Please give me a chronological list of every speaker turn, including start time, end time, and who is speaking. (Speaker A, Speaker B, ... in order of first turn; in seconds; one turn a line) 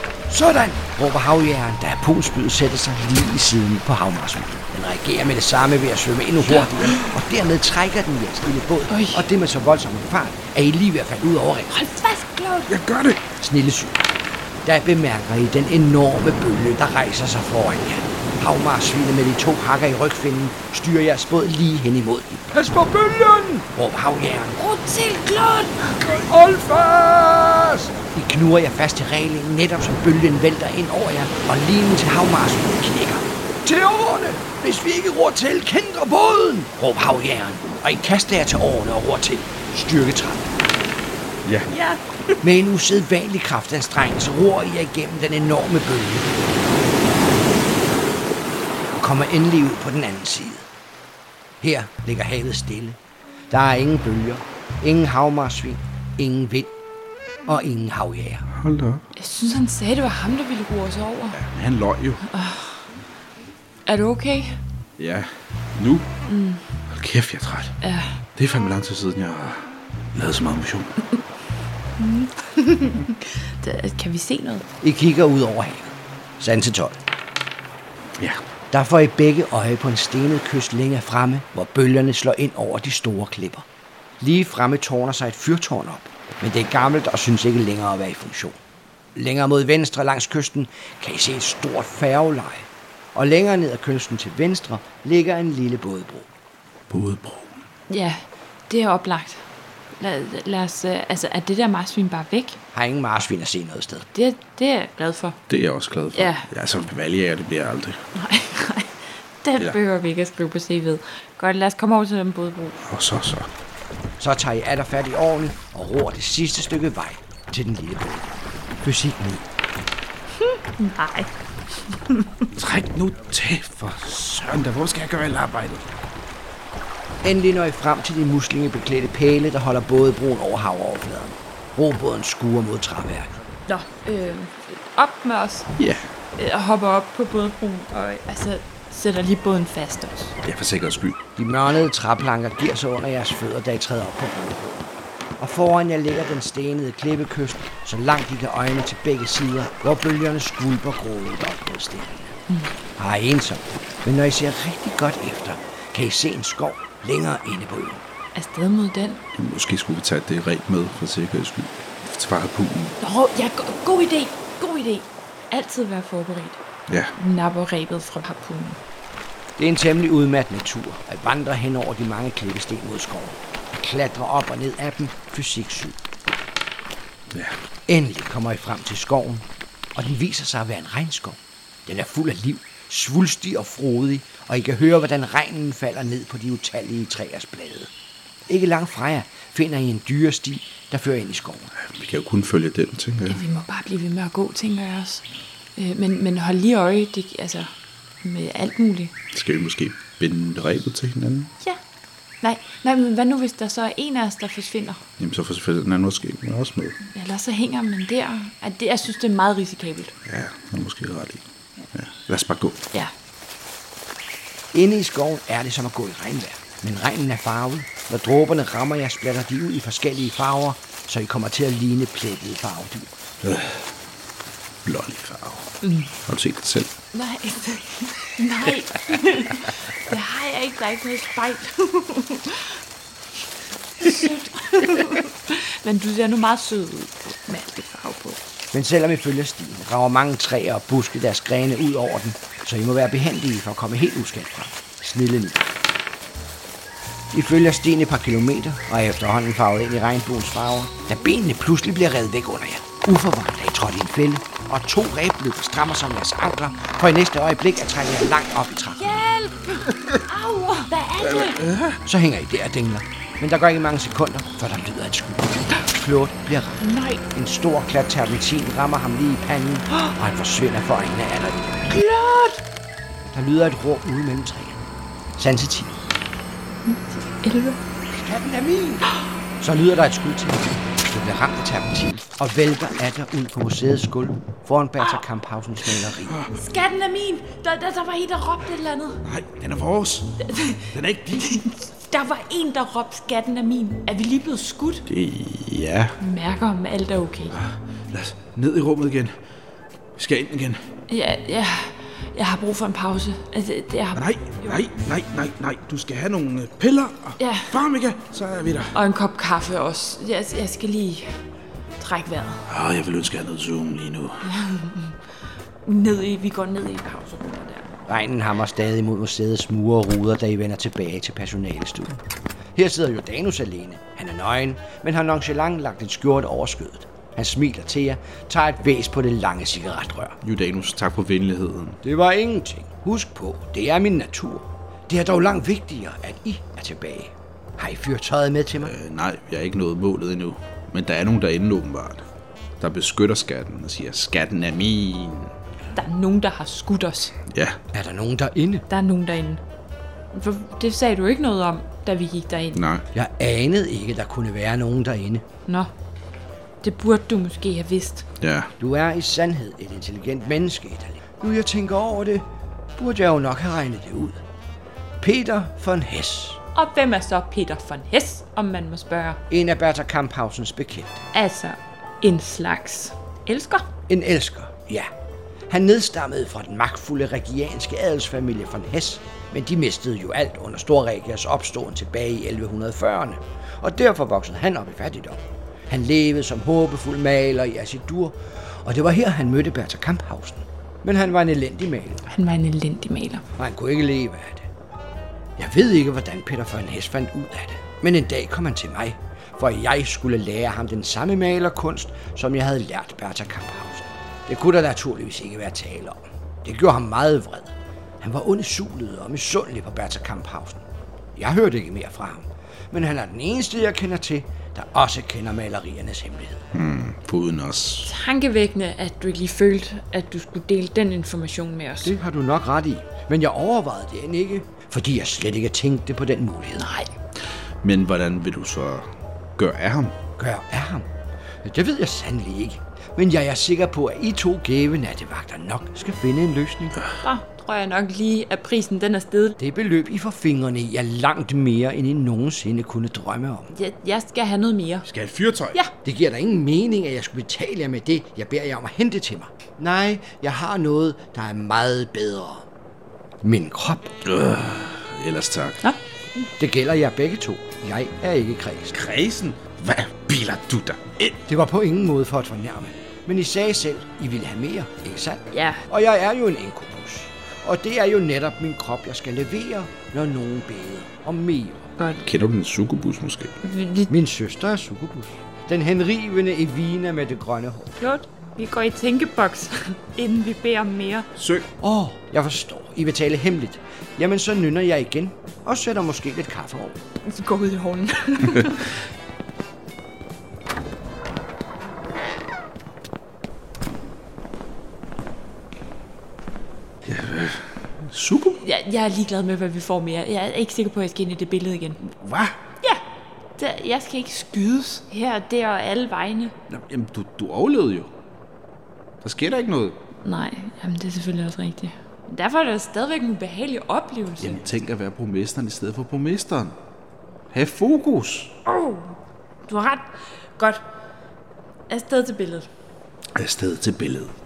Speaker A: 0.3-11.7
Speaker B: 6.5-7.0
Speaker B: 8.9-9.2
Speaker B: 11.7-12.7
Speaker C: 12.7-13.2
Speaker A: 13.4-14.1
Speaker A: 14.6-24.6
Speaker B: 24.6-25.9
Speaker C: 26.0-26.3
Speaker A: 26.1-40.5
Speaker C: 41.4-41.7
Speaker B: 41.7-42.0
Speaker A: 42.4-46.5
Speaker A: 48.9-50.6
Speaker A: 51.6-53.0
Speaker A: 53.5-56.7
Speaker A: 57.5-58.5
Speaker C: 58.5-59.0
Speaker B: 59.2-61.4
Speaker C: 61.3-62.2
Speaker B: 62.3-62.9
Speaker B: 63.9-64.6
Speaker C: 65.0-66.1
Speaker B: 66.3-66.6
Speaker C: 66.9-67.8
Speaker B: 67.8-68.2
Speaker C: 68.3-71.0
Speaker B: 72.0-74.7
Speaker A: 74.8-77.0
Speaker A: 78.7-83.7
Speaker A: 84.2-88.6
Speaker A: 89.1-96.3
Speaker C: 96.9-97.6
Speaker B: 97.9-99.4
Speaker B: 100.0-102.6
Speaker A: 102.7-104.1
Speaker B: 104.1-105.4
Speaker C: 105.5-108.1
Speaker B: 106.1-106.5
Speaker B: 108.1-112.8
Speaker C: 112.8-113.5
Speaker A: 114.2-118.3
Speaker A: 118.8-119.5
Speaker B: 120.4-121.3
Speaker B: 121.8-122.5
Speaker C: 122.5-125.9
Speaker A: 127.2-133.4
Speaker B: 133.7-135.7
Speaker C: 135.8-136.1
Speaker B: 136.3-140.4
Speaker C: 140.4-141.2
Speaker A: 141.4-144.9
Speaker A: 145.4-152.3
Speaker A: 153.0-158.0
Speaker B: 158.3-159.2
Speaker C: 159.3-163.0
Speaker B: 163.0-166.6
Speaker C: 166.9-167.1
Speaker B: 167.2-168.8
Speaker A: 169.6-176.0
Speaker C: 177.3-177.6
Speaker A: 177.9-187.9
Speaker A: 188.5-191.7
Speaker C: 191.7-193.4
Speaker B: 193.3-197.7
Speaker B: 198.2-199.1
Speaker C: 199.3-201.5
Speaker B: 202.4-205.0
Speaker C: 205.2-207.0
Speaker B: 207.1-210.1
Speaker C: 210.2-212.8
Speaker A: 214.7-223.1
Speaker C: 223.4-223.8
Speaker C: 224.8-225.7
Speaker B: 225.8-226.1
Speaker C: 226.2-226.9
Speaker B: 227.1-232.8
Speaker B: 234.0-238.4
Speaker A: 238.7-245.7
Speaker A: 247.3-259.2
Speaker B: 259.0-261.6
Speaker C: 261.2-262.0
Speaker A: 262.0-271.9
Speaker B: 266.8-267.2
Speaker B: 271.9-272.6
Speaker A: 273.3-274.8
Speaker A: 275.4-276.0
Speaker B: 276.8-277.8
Speaker A: 278.1-286.4
Speaker C: 286.2-286.5
Speaker B: 286.5-289.2
Speaker C: 289.2-290.4
Speaker B: 290.4-295.1
Speaker C: 290.9-291.6
Speaker C: 295.1-296.2
Speaker B: 296.2-297.6
Speaker C: 297.5-299.3
Speaker C: 300.1-300.9
Speaker B: 301.1-304.8
Speaker C: 304.1-309.0
Speaker B: 307.4-307.7
Speaker B: 308.9-311.3
Speaker B: 312.0-312.6
Speaker C: 312.7-314.5
Speaker B: 314.4-315.2
Speaker B: 315.8-317.9
Speaker A: 318.1-322.2
Speaker A: 322.7-330.4
Speaker C: 330.4-332.0
Speaker A: 332.0-338.9
Speaker C: 338.8-342.2
Speaker C: 342.8-345.5
Speaker B: 345.9-347.4
Speaker C: 347.5-347.8
Speaker A: 347.9-348.8
Speaker B: 348.9-349.6
Speaker B: 350.3-352.8
Speaker C: 352.7-353.0
Speaker A: 353.1-355.4
Speaker B: 356.8-358.2
Speaker C: 358.4-358.7
Speaker A: 358.8-362.4
Speaker A: 363.0-364.4
Speaker A: 365.2-366.6
Speaker B: 366.7-369.4
Speaker A: 369.5-371.2
Speaker B: 371.3-373.9
Speaker A: 374.1-375.1
Speaker A: 375.7-392.2
Speaker B: 392.3-393.4
Speaker A: 393.6-394.7
Speaker A: 395.6-410.8
Speaker A: 411.4-416.6
Speaker C: 416.7-418.1
Speaker B: 418.0-422.1
Speaker A: 422.0-426.9
Speaker B: 426.8-427.1
Speaker C: 427.8-430.2
Speaker A: 430.4-431.1
Speaker A: 431.6-437.0
Speaker B: 437.2-439.6
Speaker A: 439.6-443.7
Speaker B: 443.7-445.1
Speaker C: 445.1-445.8
Speaker A: 446.0-452.6
Speaker A: 453.4-454.1
Speaker C: 454.2-455.8
Speaker A: 456.6-459.0
Speaker C: 458.9-461.4
Speaker A: 461.5-471.9
Speaker B: 465.5-465.8
Speaker B: 472.0-472.2
Speaker C: 472.2-473.6
Speaker B: 473.6-474.1
Speaker A: 474.1-478.0
Speaker B: 478.0-481.3
Speaker C: 481.4-481.7
Speaker A: 481.8-487.0
Speaker B: 487.2-489.0
Speaker C: 497.0-498.6
Speaker B: 498.6-502.0
Speaker C: 502.0-502.6
Speaker B: 503.6-506.5
Speaker C: 506.7-508.1
Speaker C: 509.2-510.0
Speaker B: 510.2-514.6
Speaker C: 514.4-516.8
Speaker C: 517.5-518.5
Speaker B: 518.6-519.1
Speaker B: 519.7-520.8
Speaker B: 521.9-522.7
Speaker C: 523.3-524.3